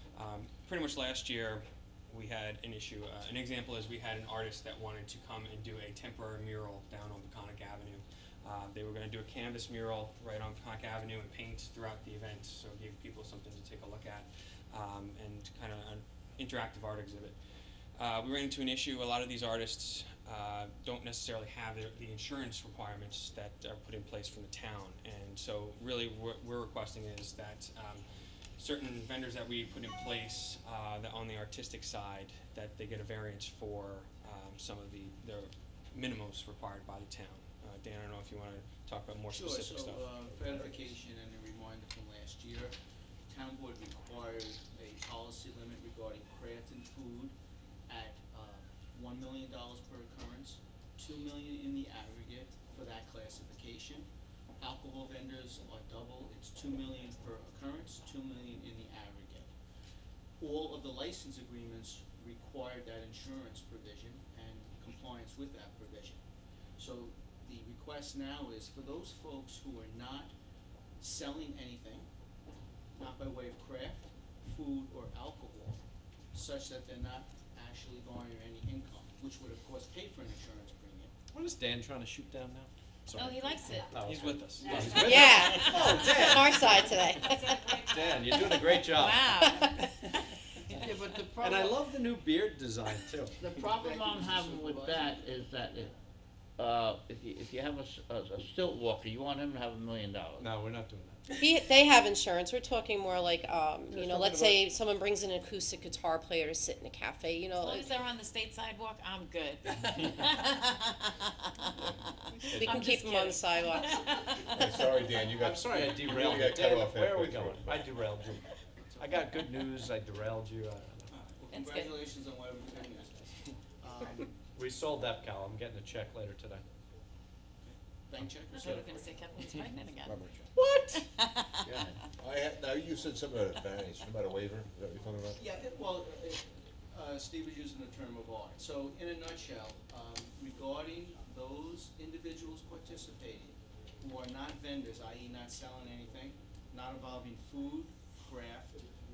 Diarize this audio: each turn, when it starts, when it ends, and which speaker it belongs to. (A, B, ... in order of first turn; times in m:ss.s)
0:00.2-0:17.4 A
0:18.0-0:28.0 A
0:28.6-0:40.1 A
0:39.3-0:42.8 B
0:40.3-0:40.9 C
0:43.3-0:47.4 B
0:47.9-0:54.1 B
0:54.6-0:59.5 B
1:00.4-1:06.2 B
1:06.8-1:10.3 B
1:11.0-1:12.1 B
1:13.0-1:15.8 B
1:16.3-1:21.1 B
1:21.3-1:26.7 D
1:23.2-1:23.9 E
1:24.0-1:25.9 A
1:25.1-1:28.0 F
1:25.7-1:26.3 B
1:27.9-1:29.9 D
1:28.4-1:30.3 E
1:30.7-1:33.4 D
1:31.4-1:31.8 G
1:33.4-1:35.9 G
1:33.5-1:35.3 B
1:36.6-1:40.5 G
1:40.4-1:41.4 D
1:41.4-1:48.0 F
1:44.0-1:44.3 D
1:47.6-1:54.9 E
1:52.5-1:52.9 D
1:52.5-1:53.9 F
1:54.5-1:57.7 C
1:55.4-1:58.4 D
1:58.9-1:59.4 B
1:59.0-2:01.1 D
2:01.1-2:04.4 B
2:01.5-2:02.0 E
2:04.6-2:06.6 D
2:07.6-2:09.2 B
2:08.5-2:11.7 E
2:10.1-2:10.4 C
2:10.6-2:11.0 D
2:12.2-2:15.4 C
2:15.4-2:28.8 B